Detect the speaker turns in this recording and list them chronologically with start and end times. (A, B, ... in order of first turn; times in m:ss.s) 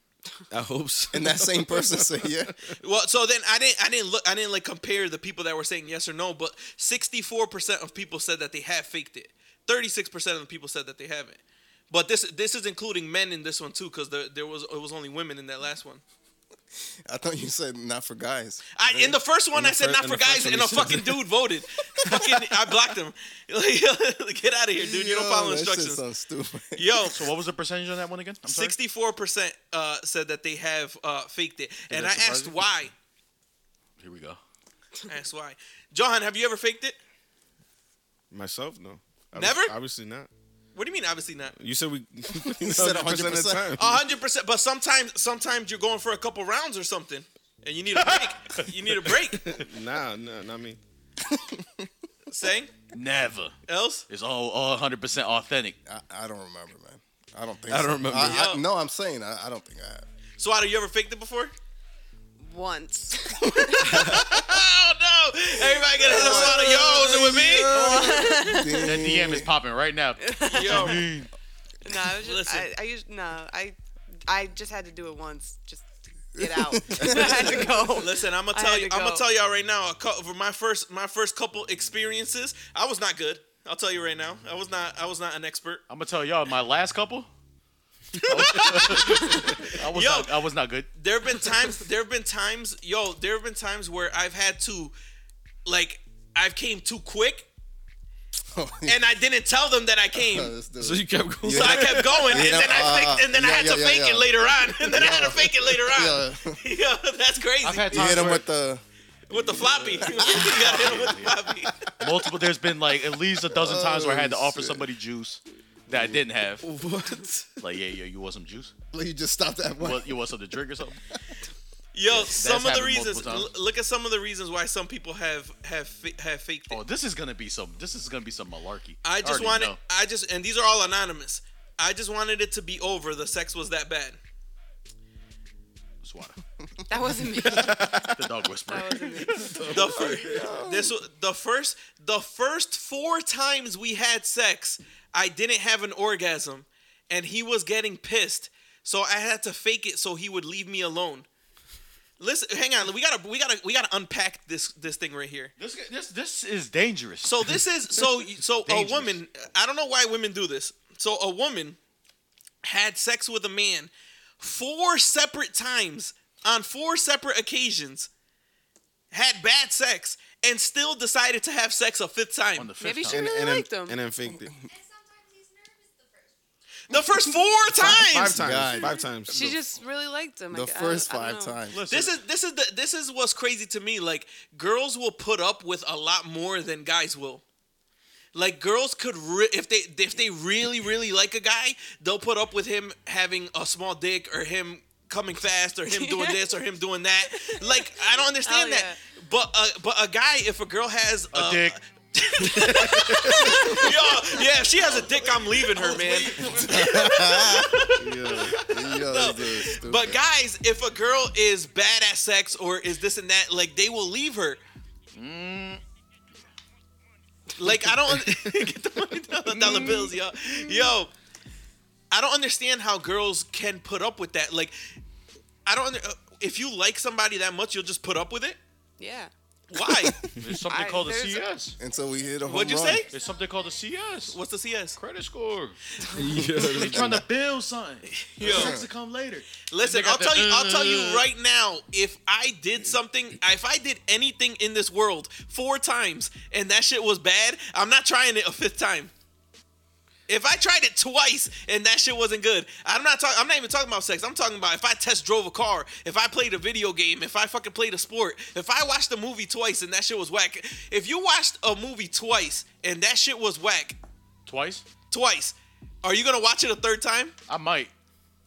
0:00.5-0:02.8 A
0:01.1-0:02.6 B
0:02.8-0:16.0 C
0:17.1-0:19.2 B
0:18.8-0:26.0 C
0:19.5-0:21.3 A
0:24.8-0:27.1 B
0:26.8-0:27.2 C
0:27.1-0:28.8 D
0:28.4-0:32.9 C
0:31.9-0:32.6 D
0:34.0-0:34.4 D
0:35.1-0:37.0 C
0:38.3-0:40.3 A
0:39.4-0:39.8 C
0:40.8-0:41.6 C
0:41.6-0:44.0 A
0:42.3-0:43.8 B
0:43.8-0:49.5 C
0:47.9-0:49.1 D
0:49.4-0:50.8 A
0:51.2-0:51.9 B
0:52.3-0:52.7 C
0:52.9-0:53.6 D
0:53.7-0:54.0 C
0:54.1-0:55.8 D
0:55.9-1:00.1 B
0:57.7-0:58.5 A
0:58.2-0:58.6 C
1:00.4-1:01.5 C
1:02.4-1:04.2 E
1:03.6-1:04.4 B
1:03.9-1:08.1 C
1:06.0-1:09.5 B
1:06.0-1:08.8 E
1:08.8-1:11.3 D
1:10.2-1:11.1 E
1:10.5-1:11.1 C
1:11.8-1:19.2 E
1:12.1-1:12.7 C
1:16.4-1:17.9 B
1:17.0-1:17.4 A
1:18.0-1:25.8 C
1:25.9-1:27.3 D
1:28.2-1:30.9 D
1:28.2-1:30.3 C
1:29.3-1:29.8 A
1:31.0-1:34.9 C
1:35.6-1:37.5 C
1:38.5-1:39.0 B
1:38.9-1:40.6 C
1:40.2-1:46.6 B
1:40.8-1:42.4 A
1:41.5-1:48.1 C
1:47.6-1:48.5 D
1:47.9-1:48.8 B
1:49.3-1:51.9 C
1:49.5-1:51.4 D
1:50.0-1:51.1 B
1:52.0-1:56.7 D
1:53.5-1:54.9 B
1:55.9-1:56.2 B
1:56.6-1:57.6 A
1:57.6-1:58.7 D
1:58.9-2:00.2 B
1:59.8-2:01.0 D
2:01.9-2:06.8 C
2:02.1-2:03.5 D
2:06.7-2:09.8 D
2:09.0-2:14.2 C
2:16.0-2:16.4 D
2:16.9-2:18.1 E
2:17.5-2:18.2 A
2:17.5-2:19.6 D
2:18.7-2:19.6 E
2:19.4-2:20.6 A
2:19.7-2:31.3 C
2:19.8-2:20.9 B
2:32.2-2:35.5 C
2:35.6-2:37.6 D
2:37.2-2:41.8 C
2:38.6-2:39.2 D
2:42.6-2:48.1 C
2:49.1-2:52.7 C
2:52.6-2:53.2 D
2:52.8-2:54.0 E
2:53.1-2:54.5 A
2:54.5-2:56.4 F
2:56.9-2:58.4 C
2:57.7-2:59.6 A
2:57.8-2:59.0 B
2:58.8-2:59.0 F
2:59.3-3:01.6 E
3:00.5-3:01.8 B
3:01.7-3:02.2 D
3:01.9-3:07.4 C
3:08.3-3:34.6 C
3:15.9-3:16.6 E
3:17.3-3:19.0 E
3:21.3-3:21.8 D
3:22.4-3:23.8 D
3:22.7-3:23.1 A
3:23.5-3:24.2 B
3:25.8-3:26.2 D
3:25.8-3:27.9 B
3:28.0-3:28.7 A
3:28.5-3:30.2 B
3:35.1-3:35.8 D
3:37.6-3:41.1 C
3:39.5-3:40.1 D
3:42.1-3:44.8 C
3:45.7-3:48.6 C
3:49.0-3:49.3 E
3:49.7-3:50.2 C
3:50.4-3:51.8 D
3:50.7-3:51.5 E
3:51.8-3:53.1 B
3:51.8-3:54.1 F
3:52.4-3:53.1 C
3:53.1-3:54.4 D
3:54.3-3:55.0 C
3:55.0-3:55.8 D
3:56.1-3:57.2 A
3:56.5-4:01.3 D
3:56.8-3:57.2 B
3:58.4-3:58.8 C
3:58.4-3:58.9 B
3:59.7-4:09.1 C
4:10.3-4:24.0 C
4:24.5-4:24.8 D
4:25.1-4:27.4 C
4:27.5-4:27.9 D